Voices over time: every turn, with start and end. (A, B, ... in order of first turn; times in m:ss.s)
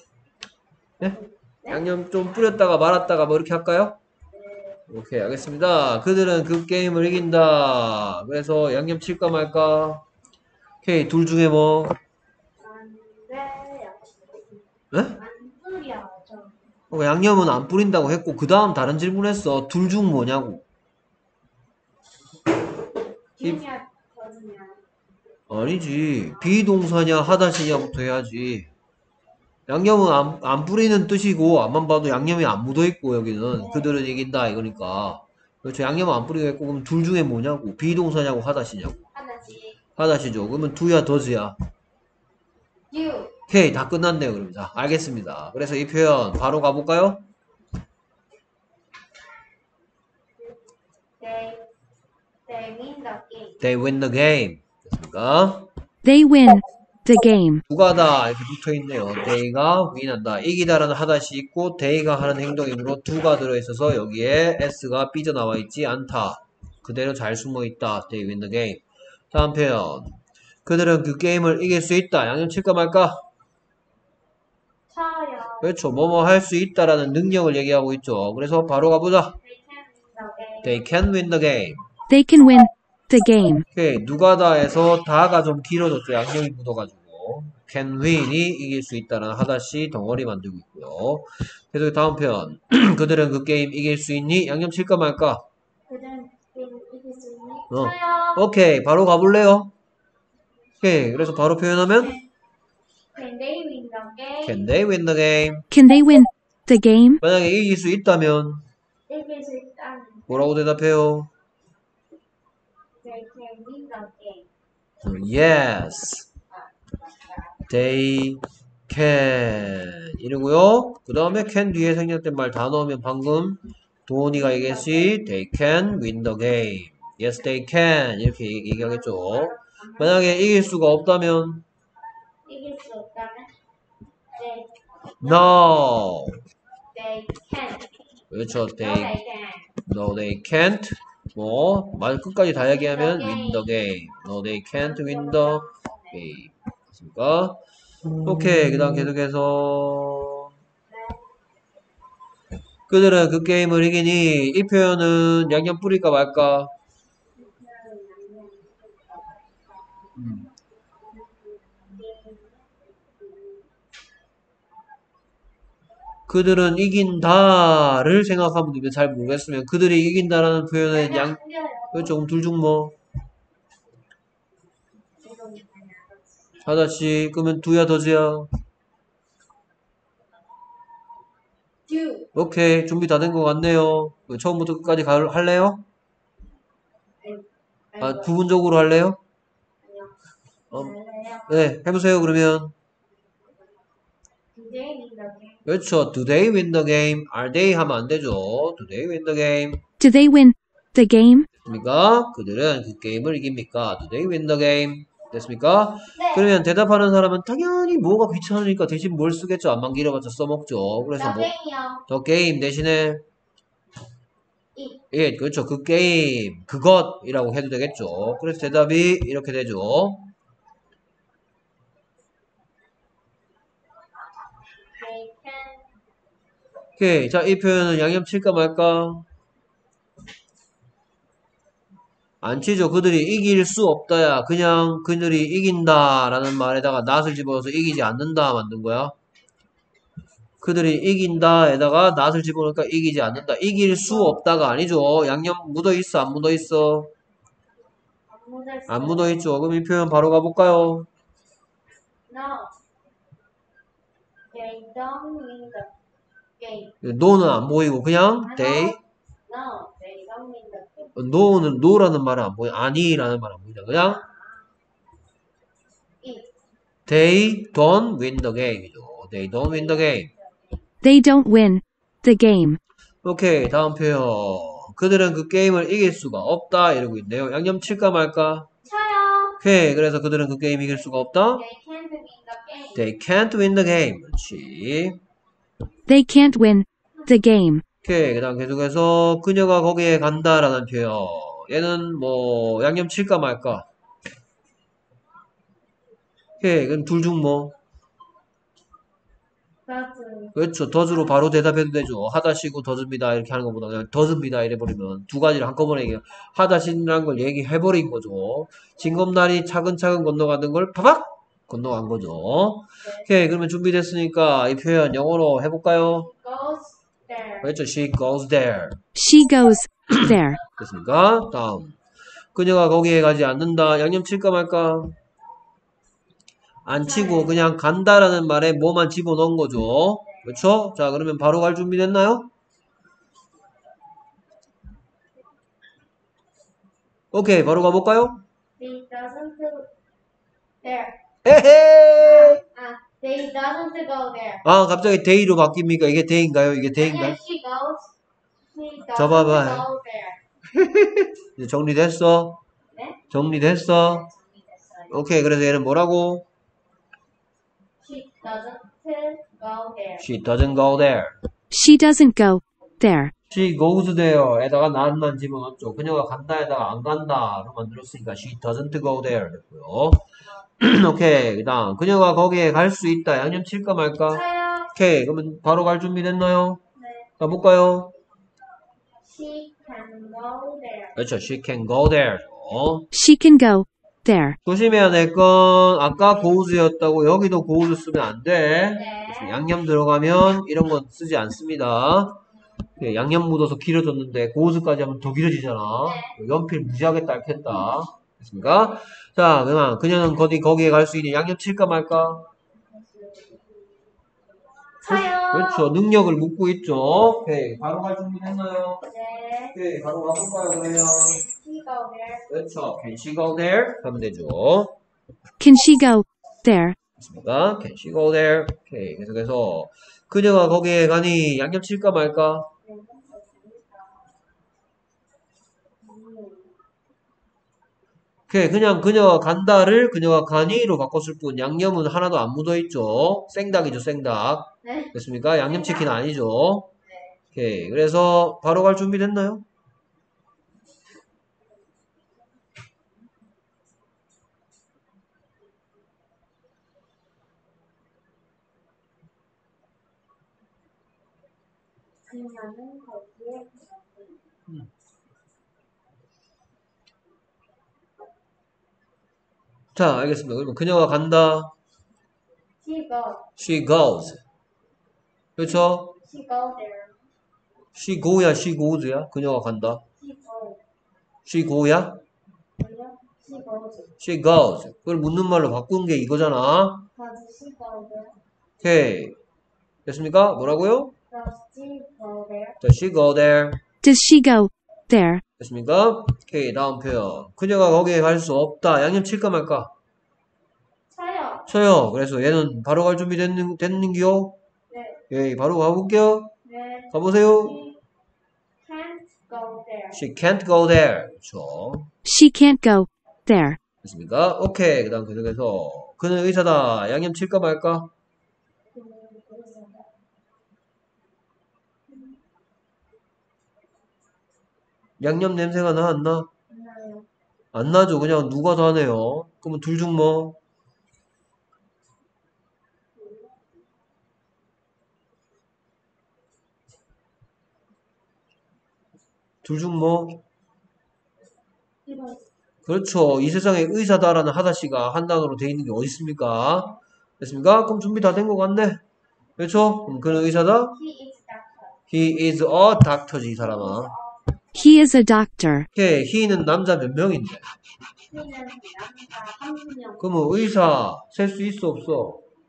0:01.0-0:04.0 A
0:01.1-0:01.8 B
0:04.3-0:04.8 B
0:04.9-0:10.0 A
0:10.8-0:12.0 A
0:12.6-0:16.7 B
0:16.9-0:20.6 A
0:23.4-0:24.8 B
0:25.5-0:28.7 A
0:26.3-0:26.6 B
0:29.7-0:39.0 A
0:33.5-0:33.9 B
0:39.1-0:39.8 B
0:40.0-0:41.6 A
0:42.9-0:43.4 B
0:43.5-0:47.2 A
0:51.2-0:51.6 B
0:52.5-0:53.6 B
0:53.6-0:55.7 A
0:56.0-0:57.6 C
0:57.7-1:13.2 A
1:14.9-1:15.7 B
1:15.6-1:19.4 A
1:19.4-1:20.8 B
1:20.6-1:21.8 A
1:22.1-1:23.7 C
1:23.7-1:35.4 A
1:35.9-1:38.4 B
1:37.7-1:39.7 A
1:40.8-1:42.2 A
1:43.1-1:44.8 B
1:44.4-1:45.7 A
1:45.7-1:47.2 C
1:47.2-1:48.6 A
1:49.1-1:50.6 B
1:50.3-1:51.3 A
1:53.0-1:54.5 B
1:55.0-1:56.3 A
1:56.5-1:57.6 B
1:57.7-2:11.6 A
2:04.3-2:05.2 B
2:08.7-2:10.6 B
2:12.5-2:13.5 B
2:14.4-2:15.6 B
2:15.2-2:16.4 A
2:16.9-2:17.9 B
2:18.3-2:19.1 A
2:18.7-2:19.7 B
2:19.9-2:27.6 A
2:22.7-2:23.9 B
2:24.7-2:26.2 B
2:28.2-2:30.5 A
2:30.9-2:31.2 B
2:32.9-2:36.7 A
2:37.4-2:40.1 B
2:40.2-2:40.5 A
2:41.1-2:43.7 B
2:46.3-2:51.4 A
2:50.9-2:52.2 B
2:51.9-2:53.0 A
2:55.2-2:56.5 B
2:56.6-2:58.5 A
3:01.9-3:02.3 B
3:02.4-3:05.8 A
3:07.2-3:08.4 B
3:08.0-3:09.2 A
3:09.8-3:10.2 B
3:10.7-3:11.7 B
3:11.5-3:12.7 A
3:14.5-3:15.7 B
3:15.7-3:19.8 A
3:20.0-3:21.5 C
3:21.6-3:31.5 A
3:26.2-3:26.4 B
3:31.1-3:32.1 B
3:32.1-3:33.2 A
3:34.8-3:35.0 B
3:35.1-3:40.3 A
3:45.0-3:45.9 B
3:47.0-3:49.3 A
3:52.4-3:59.1 A
4:00.6-4:07.1 A
4:04.1-4:04.4 B
4:08.3-4:09.5 B
4:08.9-4:11.1 A
4:12.3-4:12.7 B
4:14.5-4:15.9 B
4:16.6-4:16.9 B
4:17.0-4:19.0 A
4:18.4-4:21.2 B
4:21.2-4:24.2 A
4:23.9-4:24.4 B
4:26.2-4:26.5 B
4:27.1-4:30.3 A
4:29.6-4:30.9 B
4:31.0-4:32.8 C
4:33.2-4:38.7 A
4:38.8-4:39.6 B
4:39.6-4:41.6 A
4:41.4-4:43.1 B
4:42.9-4:45.2 A
4:46.1-4:47.8 C
4:48.0-4:53.9 A
4:56.6-4:57.7 A
4:59.9-5:00.6 B
5:00.6-5:16.3 A
5:16.2-5:17.7 B
5:17.6-5:19.0 A
5:19.2-5:20.6 C
5:20.8-5:22.0 A
5:22.6-5:25.1 A
5:26.8-5:32.5 A
5:27.0-5:27.6 B
5:30.3-5:30.6 B
5:37.3-5:38.4 A
5:38.8-5:39.9 B
5:40.8-5:41.2 B
5:41.4-5:42.6 A
5:42.2-5:44.6 B
5:44.6-5:47.4 A
5:47.0-5:48.1 B
5:48.7-5:50.4 B
5:49.1-5:49.9 A
5:50.7-5:52.6 A
5:52.9-5:53.2 B
5:53.3-5:54.3 A
5:54.1-5:55.2 B
5:55.1-5:56.5 A
5:58.0-6:00.3 B
6:00.2-6:01.4 A
6:01.7-6:03.3 C
6:03.5-6:10.2 A
6:10.8-6:16.8 A
6:14.3-6:14.9 B
6:17.0-6:17.3 B
6:17.4-6:18.1 A
6:19.2-6:21.2 B
6:21.2-6:23.1 A
6:23.1-6:24.6 C
6:24.6-6:32.4 A
6:28.9-6:29.6 B
6:33.0-6:42.5 A
6:35.9-6:36.3 B
6:42.8-6:43.8 B
6:45.0-6:45.9 B
6:45.0-6:49.1 A
6:49.1-6:49.8 B
6:49.7-6:51.4 A
6:51.4-6:52.5 B
6:52.5-6:55.0 A
6:55.6-6:57.0 C
6:57.2-7:02.7 A
7:02.8-7:04.2 B
7:06.0-7:06.8 B
7:08.5-7:16.9 A
7:14.8-7:16.1 B
7:17.1-7:17.4 B
7:17.5-7:19.6 A
7:32.3-7:34.4 B
7:40.0-7:41.7 A
7:42.8-7:43.5 B
7:43.6-7:44.4 A
7:45.6-7:46.1 A
7:45.6-7:47.2 B
7:48.0-7:50.0 A
7:50.2-7:50.8 B
7:51.4-7:52.2 A
7:52.8-7:54.1 B
7:54.2-7:57.1 A
7:57.2-7:58.4 B
7:58.8-7:59.4 A
8:00.1-8:01.1 A
8:01.3-8:02.8 B
8:02.8-8:03.8 A
8:04.0-8:05.4 C
8:05.6-8:09.9 A
8:11.1-8:11.7 B
8:11.7-8:14.6 A
8:14.9-8:15.2 B
8:15.3-8:16.5 A
8:16.6-8:18.0 B
8:17.1-8:17.8 A
8:18.8-8:20.2 B
8:20.1-8:22.1 A
8:22.2-8:23.8 C
8:24.0-8:28.1 A
8:28.9-8:30.1 B
8:35.2-8:36.5 A
8:36.7-8:37.3 B
8:37.7-8:40.6 A
8:43.2-8:43.6 B
8:49.6-8:50.4 A
8:52.1-8:52.4 B
8:52.9-8:59.0 A
8:59.6-9:01.0 A
9:00.2-9:02.0 B
9:02.1-9:04.1 A
9:03.6-9:05.1 B
9:04.8-9:05.9 C
9:05.9-9:07.7 A
9:08.3-9:10.2 B
9:10.2-9:12.4 A